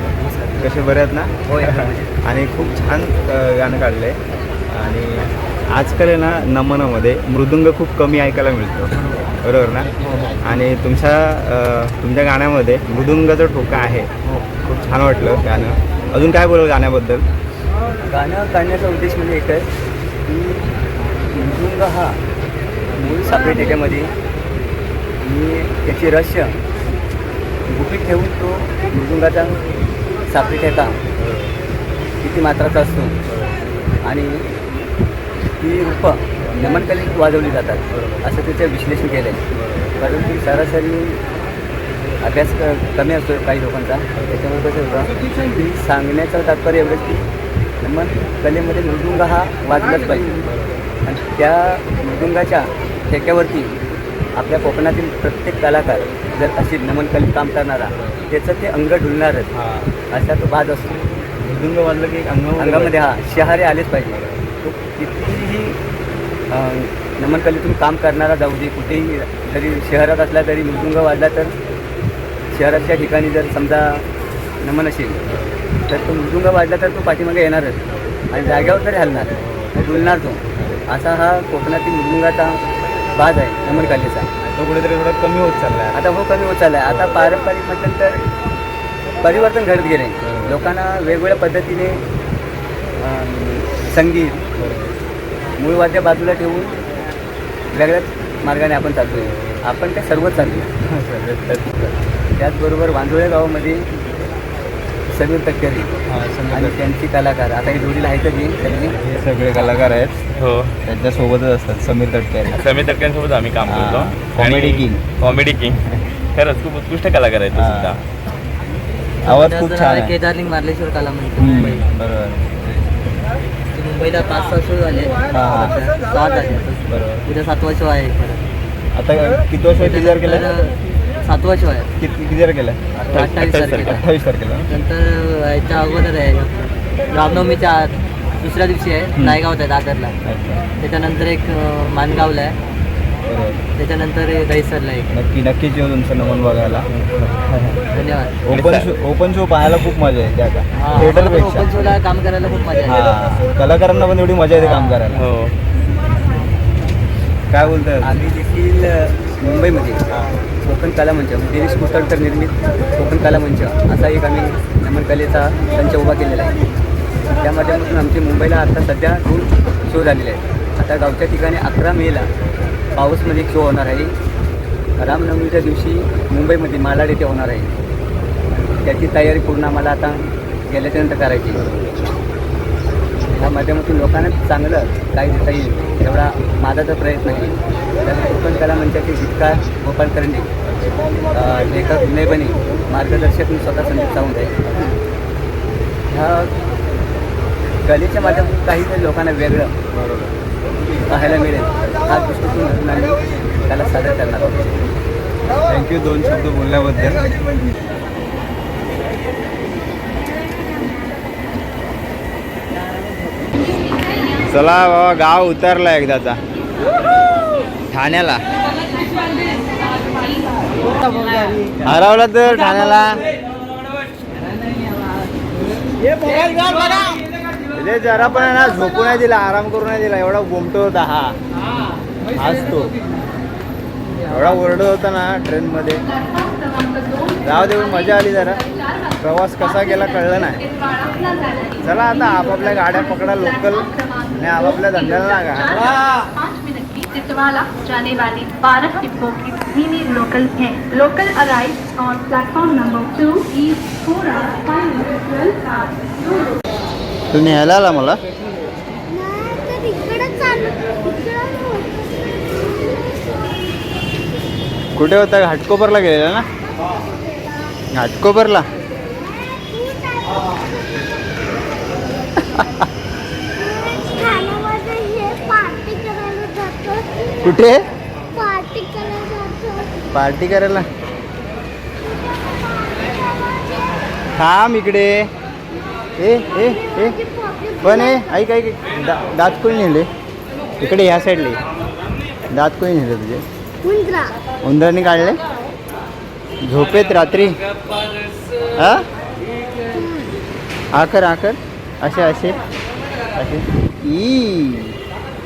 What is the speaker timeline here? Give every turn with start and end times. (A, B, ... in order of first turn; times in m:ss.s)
0:00.5-0:09.9 A
0:01.5-0:02.1 B
0:10.4-0:17.2 A
0:18.0-0:19.7 B
0:20.2-0:20.7 B
0:21.3-0:22.2 B
0:22.9-0:24.1 B
0:25.2-0:26.6 B
0:27.7-0:29.6 B
0:30.3-0:31.0 B
0:31.2-0:31.5 A
0:32.2-0:33.2 B
0:33.3-0:33.6 A
0:34.0-0:34.4 B
0:35.6-0:39.4 B
0:39.6-0:39.9 A
0:40.0-0:41.2 B
0:42.2-0:47.2 B
0:47.8-0:50.4 B
0:51.0-0:53.8 B
0:54.3-0:59.5 B
0:59.5-0:59.9 A
1:00.1-1:01.0 B
1:01.4-1:03.6 A
1:02.6-1:05.8 B
1:06.5-1:11.5 B
1:12.5-1:14.0 B
1:14.6-1:15.2 B
1:15.9-1:17.8 B
1:18.3-1:22.6 B
1:19.4-1:19.7 A
1:20.5-1:20.8 A
1:23.1-1:24.3 B
1:24.4-1:26.0 A
1:25.9-1:28.2 B
1:29.2-1:32.0 B
1:30.2-1:30.6 A
1:33.0-1:34.4 B
1:34.6-1:34.9 A
1:35.6-1:36.7 B
1:37.7-1:40.7 B
1:39.3-1:39.6 A
1:40.8-1:42.0 A
1:42.4-1:43.8 B
1:45.1-1:49.0 B
1:46.1-1:46.8 A
1:49.0-1:50.2 A
1:50.4-1:50.7 C
1:50.8-1:52.7 A
1:52.5-1:55.8 C
1:53.6-1:55.1 A
1:56.3-1:58.0 C
1:57.5-1:58.0 A
1:59.2-2:00.1 A
1:59.2-2:01.8 D
2:01.4-2:02.8 A
2:03.7-2:08.4 D
2:05.3-2:05.8 A
2:06.9-2:07.2 A
2:08.9-2:10.5 A
2:09.7-2:11.9 D
2:12.0-2:14.7 A
2:13.0-2:14.0 D
2:14.7-2:20.2 D
2:19.2-2:19.4 A
2:20.2-2:20.6 A
2:20.8-2:22.5 D
2:23.2-2:23.6 A
2:23.8-2:25.1 D
2:25.1-2:27.8 A
2:27.9-2:28.4 D
2:28.4-2:31.9 A
2:28.5-2:28.9 C
2:30.8-2:33.0 D
2:32.8-2:35.2 A
2:34.5-2:35.1 D
2:35.2-2:35.5 C
2:37.5-2:38.3 A
2:38.0-2:40.0 B
2:40.6-2:46.6 B
2:47.4-2:52.3 B
2:52.9-2:54.1 B
2:55.0-2:57.7 B
2:58.5-3:01.7 B
3:03.3-3:10.5 B
3:11.3-3:14.6 B
3:14.6-3:15.0 A
3:16.1-3:16.5 B
3:17.8-3:19.7 B
3:19.9-3:20.3 A
3:21.0-3:24.9 B
3:25.6-3:27.3 A
3:34.5-3:36.4 A
3:37.9-3:38.4 A
3:41.8-3:43.2 A
3:46.2-3:47.0 A
3:47.7-3:51.4 A
3:52.3-3:53.0 A
3:54.2-3:56.0 A
3:56.2-3:57.4 E
3:57.4-3:58.6 A
3:58.8-3:59.1 E
3:59.2-4:00.6 A
4:00.7-4:01.8 E
4:01.8-4:05.9 A
4:03.9-4:04.3 E
4:06.3-4:16.1 E
4:17.3-4:18.2 A
4:19.1-4:23.4 F
4:24.9-4:26.5 A
4:27.9-4:28.6 A
4:29.2-4:31.2 F
4:33.5-4:37.3 F
4:37.4-4:37.8 A
4:38.3-4:40.0 F
4:40.1-4:40.8 A
4:42.7-4:43.8 F
4:44.3-4:45.3 A
4:46.2-4:47.2 A
4:46.9-4:48.2 F
4:47.8-4:50.1 A
4:50.8-4:51.6 A
4:52.5-4:53.4 A
4:53.8-4:54.4 F
4:54.6-4:55.4 A
4:56.6-4:57.6 A
4:58.7-4:59.0 A
4:59.9-5:00.4 F
5:00.9-5:02.6 A
5:03.3-5:05.0 A